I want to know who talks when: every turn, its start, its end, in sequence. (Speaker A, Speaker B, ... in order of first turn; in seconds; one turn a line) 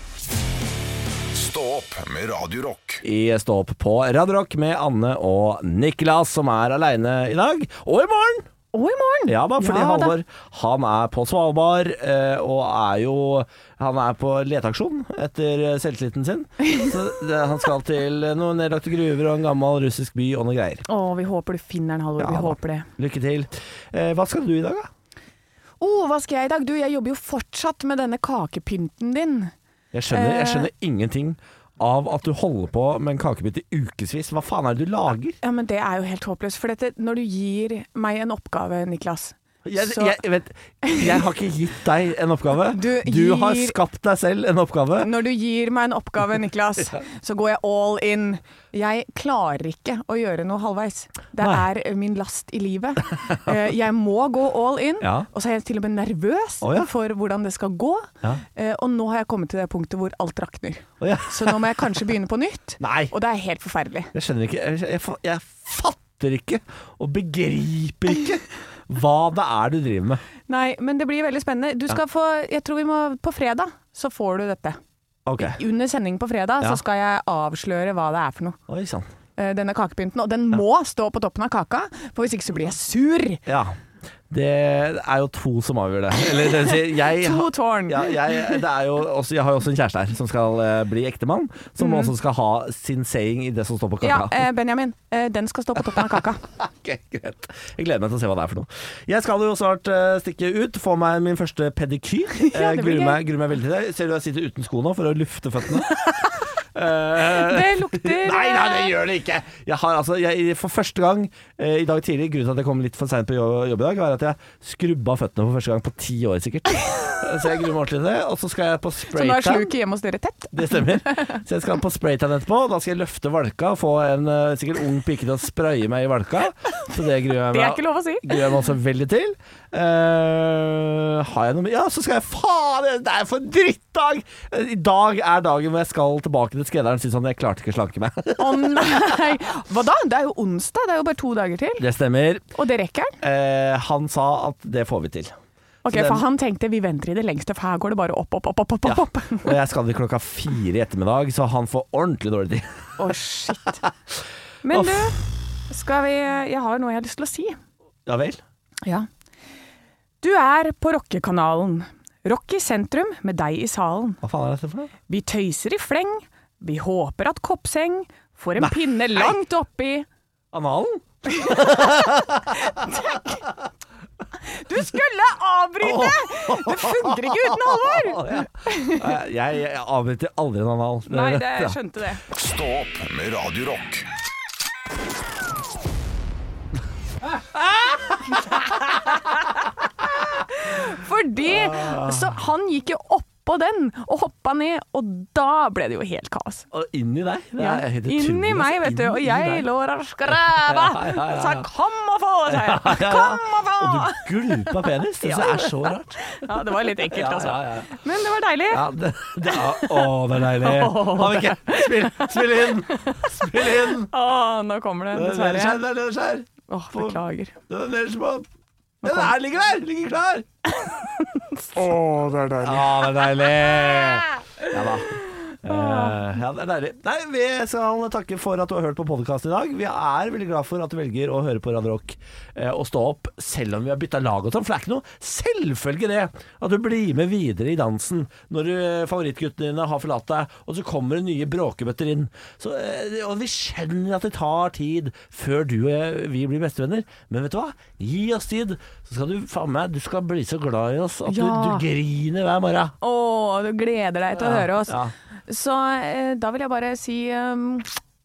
Speaker A: 1.3-3.0
Speaker B: 3.0-8.4
Speaker C: 8.7-10.1
Speaker B: 9.3-20.8
Speaker C: 20.9-22.9
Speaker B: 22.2-24.9
Speaker C: 25.8-29.5
Speaker B: 29.9-35.4
Speaker C: 30.1-30.7
Speaker C: 35.4-40.2
Speaker B: 39.6-45.1
Speaker C: 40.8-41.2
Speaker C: 42.7-43.8
Speaker C: 45.0-64.1
Speaker B: 55.0-55.3
Speaker B: 56.6-56.9
Speaker B: 61.0-61.8
Speaker B: 62.8-63.1
Speaker B: 64.1-70.2
Speaker C: 70.5-74.8
Speaker B: 75.3-75.6
Speaker C: 75.4-78.6
Speaker B: 78.7-79.1
Speaker C: 79.4-83.4
Speaker B: 83.5-83.8
Speaker B: 84.3-94.5
Speaker C: 86.7-88.6
Speaker C: 91.8-92.1
Speaker C: 94.0-96.4
Speaker B: 96.6-105.9
Speaker C: 102.4-103.2
Speaker B: 106.7-119.7
Speaker C: 107.3-109.0
Speaker C: 119.1-121.4
Speaker B: 120.5-139.2
Speaker C: 127.5-128.4
Speaker C: 138.4-141.8
Speaker B: 141.8-142.5
Speaker C: 142.5-143.2
Speaker B: 143.2-145.3
Speaker C: 145.8-149.5
Speaker B: 145.9-146.2
Speaker B: 148.9-153.1
Speaker C: 153.0-153.8
Speaker C: 154.6-157.6
Speaker B: 154.7-155.1
Speaker B: 158.1-158.4
Speaker C: 160.2-164.2
Speaker B: 164.2-164.9
Speaker C: 165.1-170.1
Speaker B: 168.6-169.3
Speaker B: 170.5-173.0
Speaker C: 171.3-173.4
Speaker C: 174.5-179.2
Speaker B: 175.8-181.8
Speaker C: 181.1-182.2
Speaker A: 182.3-184.1
Speaker B: 187.6-188.5
Speaker C: 190.3-196.7
Speaker B: 191.4-192.4
Speaker B: 196.7-199.7
Speaker C: 197.6-208.8
Speaker B: 200.3-201.7
Speaker B: 202.5-207.9
Speaker B: 208.7-214.1
Speaker C: 209.4-215.8
Speaker B: 215.1-218.4
Speaker C: 216.7-217.6
Speaker C: 219.0-219.3
Speaker B: 219.0-220.5
Speaker C: 220.7-222.8
Speaker B: 222.5-252.9
Speaker C: 225.5-226.2
Speaker C: 251.3-251.8
Speaker C: 253.0-258.0
Speaker B: 254.4-255.1